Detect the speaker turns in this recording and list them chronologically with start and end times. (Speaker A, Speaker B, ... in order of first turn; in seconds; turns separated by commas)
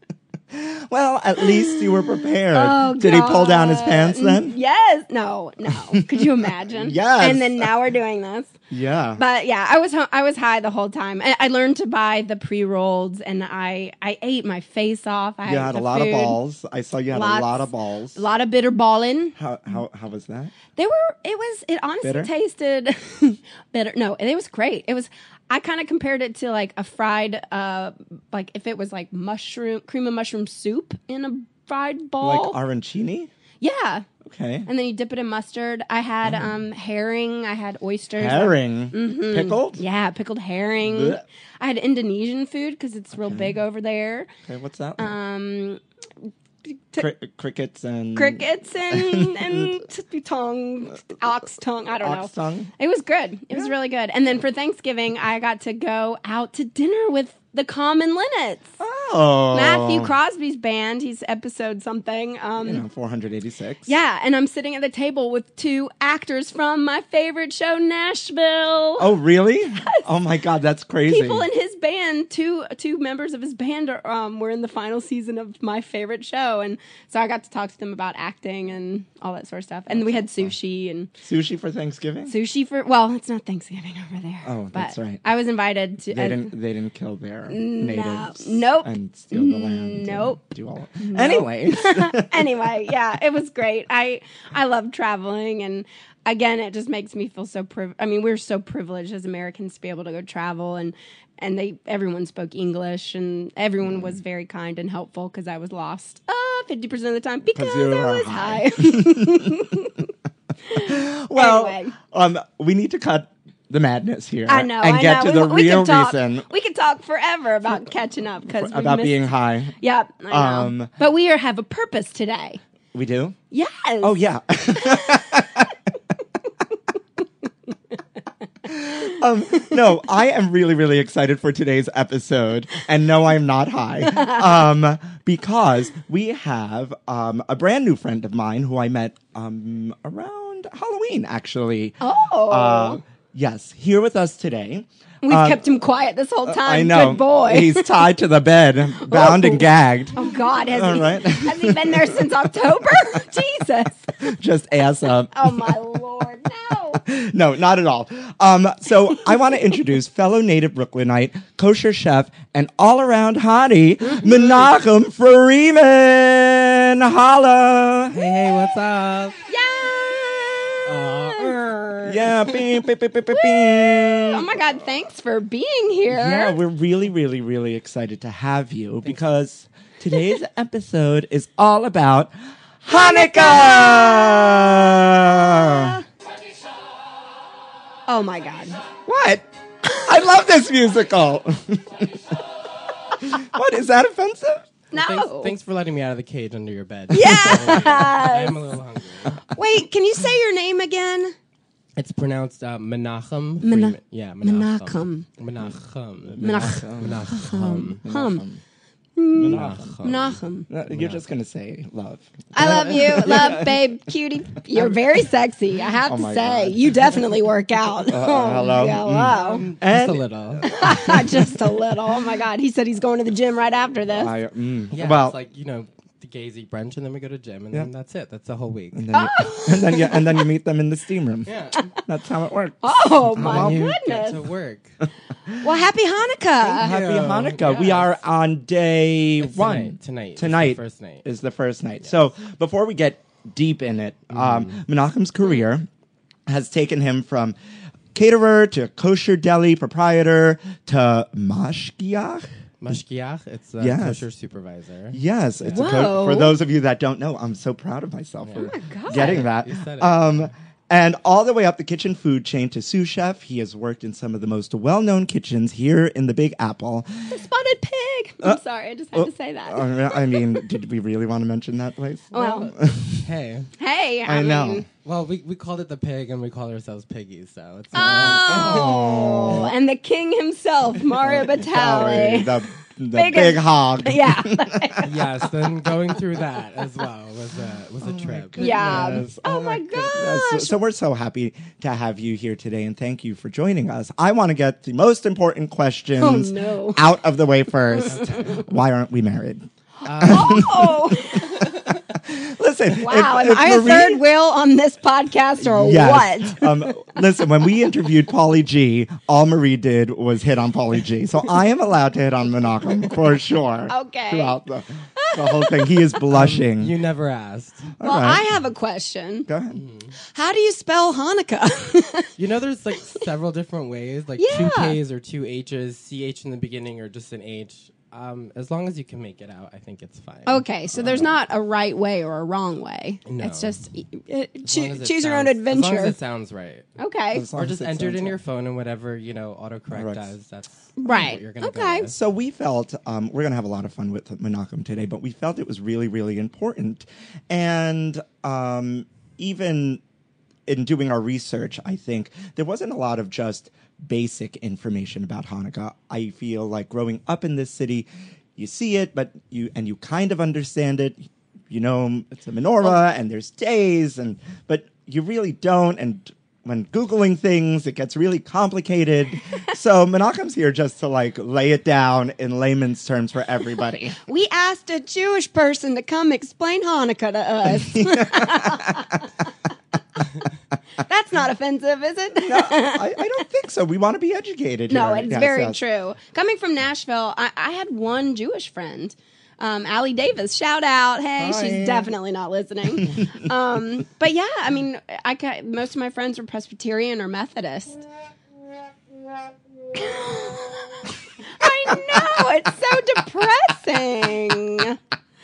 Speaker A: 0.5-4.5, Speaker B: 1.4-8.5, Speaker A: 5.9-7.7, Speaker A: 8.7-9.2, Speaker B: 9.2-16.4, Speaker A: 15.4-18.2, Speaker B: 17.1-19.4, Speaker A: 19.4-20.5, Speaker B: 20.7-32.6, Speaker A: 22.0-22.3, Speaker A: 32.2-33.3, Speaker B: 33.6-34.1, Speaker A: 34.2-34.7, Speaker B: 34.6-44.3, Speaker A: 36.2-36.5, Speaker A: 38.2-39.8, Speaker A: 40.8-41.2, Speaker A: 43.2-43.5, Speaker A: 44.5-45.1, Speaker B: 45.0-45.8, Speaker B: 46.6-47.1, Speaker A: 47.0-49.8, Speaker B: 48.1-58.7, Speaker A: 52.0-52.7, Speaker A: 58.8-60.1, Speaker B: 59.5-62.8, Speaker A: 62.6-63.9, Speaker B: 63.9-69.1, Speaker A: 69.0-71.5, Speaker B: 71.0-81.1, Speaker A: 79.9-80.5, Speaker A: 81.2-82.3, Speaker B: 82.3-86.5, Speaker A: 84.4-85.2, Speaker A: 86.1-92.6, Speaker B: 87.5-90.4, Speaker B: 91.0-110.1, Speaker A: 103.8-104.2, Speaker A: 107.5-109.6, Speaker B: 110.7-112.0, Speaker A: 110.7-116.5, Speaker B: 114.5-122.6, Speaker A: 118.6-119.7, Speaker A: 120.3-120.9, Speaker A: 122.9-123.3, Speaker B: 123.5-124.2, Speaker A: 124.0-125.7, Speaker B: 124.7-125.2, Speaker A: 128.6-145.6, Speaker B: 129.1-129.7, Speaker B: 134.1-134.4, Speaker B: 142.0-143.0, Speaker B: 145.2-148.0, Speaker A: 146.4-153.4, Speaker B: 149.0-154.1, Speaker A: 154.2-155.8, Speaker B: 155.3-157.0, Speaker A: 157.0-168.3, Speaker C: 168.1-169.4, Speaker B: 169.5-176.6, Speaker C: 170.8-171.6, Speaker A: 172.0-174.5, Speaker A: 176.1-186.0, Speaker B: 182.9-186.0, Speaker B: 188.1-188.8, Speaker A: 189.1-192.2, Speaker A: 193.2-194.7, Speaker B: 194.9-195.5, Speaker C: 194.9-199.5, Speaker B: 197.1-198.6, Speaker B: 199.5-201.3, Speaker C: 202.0-208.0, Speaker B: 203.6-205.3, Speaker A: 206.3-207.4, Speaker B: 206.4-208.4, Speaker A: 208.0-208.6, Speaker B: 209.2-210.7, Speaker A: 209.3-210.0, Speaker C: 209.4-211.2, Speaker A: 210.7-213.8, Speaker B: 212.5-219.6, Speaker A: 216.0-217.1, Speaker A: 218.1-221.6, Speaker C: 219.0-221.2, Speaker B: 220.6-224.3, Speaker A: 224.1-225.4, Speaker C: 224.9-229.1, Speaker A: 228.9-233.9, Speaker B: 229.1-230.5, Speaker C: 231.4-231.9, Speaker B: 232.8-234.4, Speaker C: 233.3-235.0, Speaker A: 235.0-235.7, Speaker B: 235.6-236.9, Speaker A: 236.6-245.9, Speaker C: 236.8-238.2, Speaker C: 239.4-241.2, Speaker C: 244.3-244.8, Speaker A: 246.5-247.6, Speaker A: 248.1-253.0, Speaker C: 252.8-256.1, Speaker A: 253.8-254.2, Speaker A: 255.1-267.2, Speaker B: 255.6-256.6, Speaker C: 258.4-260.5, Speaker B: 258.6-259.4, Speaker B: 267.3-270.7, Speaker A: 269.1-273.3, Speaker B: 272.3-272.7, Speaker C: 272.4-273.7, Speaker B: 273.8-274.9, Speaker A: 274.2-274.9, Speaker C: 275.0-278.9, Speaker A: 277.9-279.7, Speaker B: 277.9-282.6, Speaker A: 281.1-285.1, Speaker B: 283.1-285.4, Speaker C: 285.0-289.2, Speaker A: 288.0-304.2, Speaker B: 288.6-290.8, Speaker B: 296.2-297.0, Speaker C: 298.1-298.7, Speaker C: 300.0-302.0, Speaker B: 300.2-301.5, Speaker B: 303.0-307.2, Speaker A: 305.6-316.9, Speaker B: 313.9-314.6, Speaker B: 315.1-316.2, Speaker C: 316.3-317.9, Speaker A: 318.0-318.4, Speaker B: 318.0-319.5, Speaker A: 319.5-319.8, Speaker C: 319.7-320.1, Speaker B: 320.3-322.3, Speaker C: 322.4-330.6, Speaker B: 324.4-325.0, Speaker B: 330.5-336.1, Speaker A: 330.9-331.3, Speaker C: 333.2-333.8, Speaker C: 334.6-336.9, Speaker B: 337.0-337.4, Speaker A: 337.3-338.4, Speaker C: 337.5-342.1, Speaker A: 339.9-340.2, Speaker B: 341.0-342.1, Speaker A: 342.1-350.0, Speaker A: 350.7-374.2, Speaker B: 374.3-379.3, Speaker A: 377.8-379.1, Speaker B: 381.0-383.1, Speaker A: 382.4-385.8, Speaker B: 384.9-398.1, Speaker A: 391.4-392.1, Speaker A: 393.0-393.3, Speaker B: 399.9-405.0